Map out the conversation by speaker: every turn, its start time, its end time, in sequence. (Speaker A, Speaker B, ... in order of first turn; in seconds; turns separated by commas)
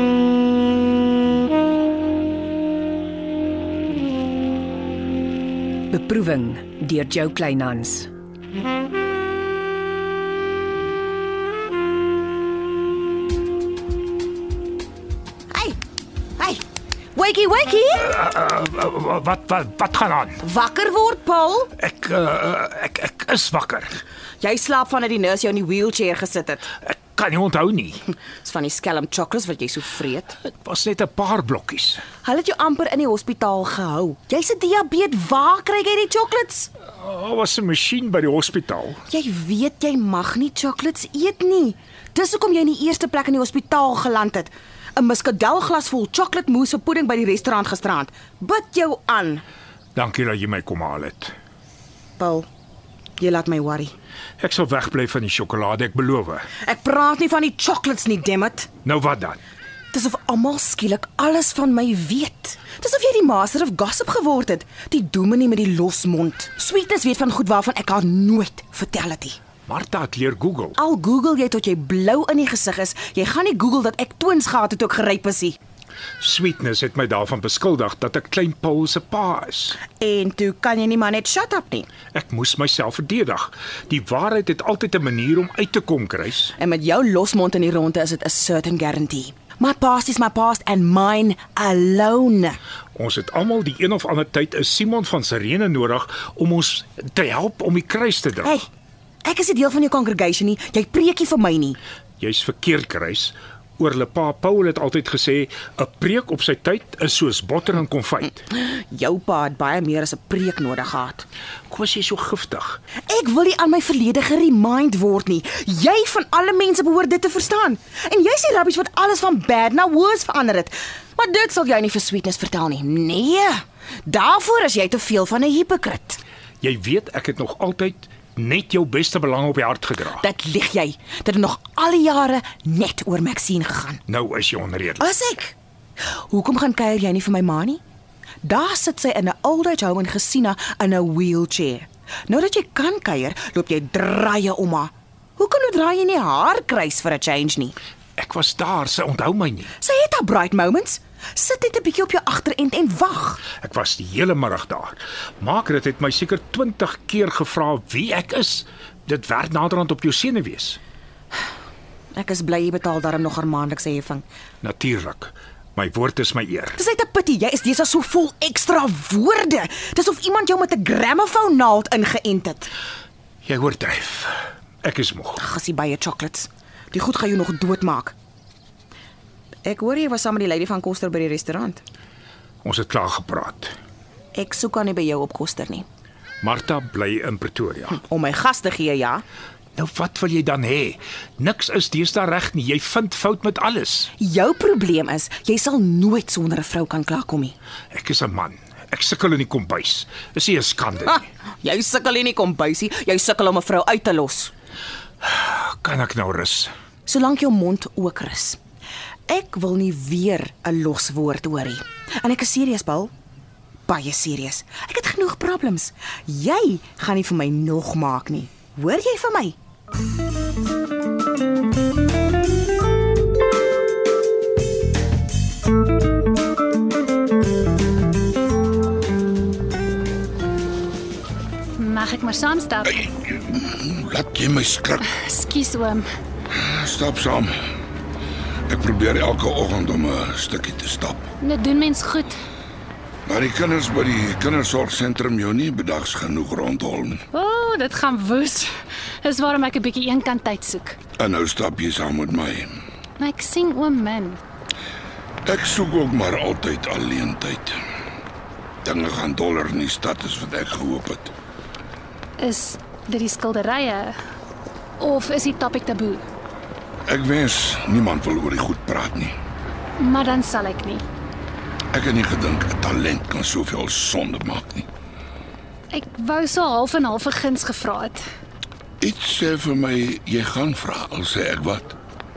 Speaker A: 5.9-8.1, Speaker B: 15.5-15.8, Speaker B: 16.4-16.6, Speaker B: 17.1-18.1, Speaker C: 18.0-20.4, Speaker B: 20.4-21.7, Speaker C: 21.8-24.0, Speaker B: 24.4-26.7, Speaker C: 26.8-28.0, Speaker B: 28.4-30.4, Speaker C: 30.4-32.0, Speaker B: 32.2-36.7, Speaker C: 36.9-39.0, Speaker B: 39.1-49.4, Speaker C: 49.9-51.3, Speaker B: 52.2-52.5, Speaker B: 53.2-53.9, Speaker C: 54.4-56.5, Speaker B: 56.6-58.7, Speaker C: 58.8-59.4, Speaker B: 59.9-69.4, Speaker C: 69.7-70.8, Speaker B: 70.8-75.6, Speaker C: 76.2-79.8, Speaker B: 80.0-81.9, Speaker C: 82.1-86.5, Speaker B: 86.6-92.6, Speaker C: 92.9-98.6, Speaker B: 99.2-101.8, Speaker C: 102.2-108.4, Speaker B: 108.5-111.2, Speaker C: 111.7-112.8, Speaker B: 113.1-126.2, Speaker C: 126.6-130.2, Speaker B: 130.2-134.0, Speaker C: 134.1-135.1, Speaker B: 135.0-135.5, Speaker B: 136.3-137.8, Speaker B: 138.4-147.8, Speaker C: 148.2-149.7, Speaker B: 149.8-153.4, Speaker C: 153.6-160.8, Speaker B: 162.1-164.2, Speaker C: 164.6-166.8, Speaker B: 166.8-172.7, Speaker C: 173.4-175.4, Speaker B: 175.4-178.1, Speaker B: 179.6-181.8, Speaker C: 182.6-183.7, Speaker B: 184.3-185.8, Speaker C: 186.4-188.0, Speaker B: 187.9-189.2, Speaker C: 189.7-194.1, Speaker B: 194.2-197.6, Speaker C: 197.9-201.3, Speaker B: 201.6-204.5, Speaker C: 205.2-206.7, Speaker B: 207.1-208.6, Speaker B: 209.3-213.1, Speaker B: 213.9-219.6, Speaker D: 231.8-233.0, Speaker E: 232.9-235.0, Speaker D: 235.1-236.1, Speaker E: 236.5-237.6, Speaker E: 238.7-241.3, Speaker D: 241.4-242.4, Speaker E: 243.2-247.2, Speaker D: 247.3-248.7, Speaker D: 249.2-251.0, Speaker E: 251.2-252.8, Speaker D: 253.2-254.4, Speaker E: 255.4-257.8, Speaker E: 258.8-261.3, Speaker D: 262.4-264.2, Speaker D: 265.0-266.2, Speaker E: 267.1-269.4, Speaker D: 270.0-271.0, Speaker E: 271.9-274.9, Speaker D: 275.9-278.2, Speaker E: 279.0-282.0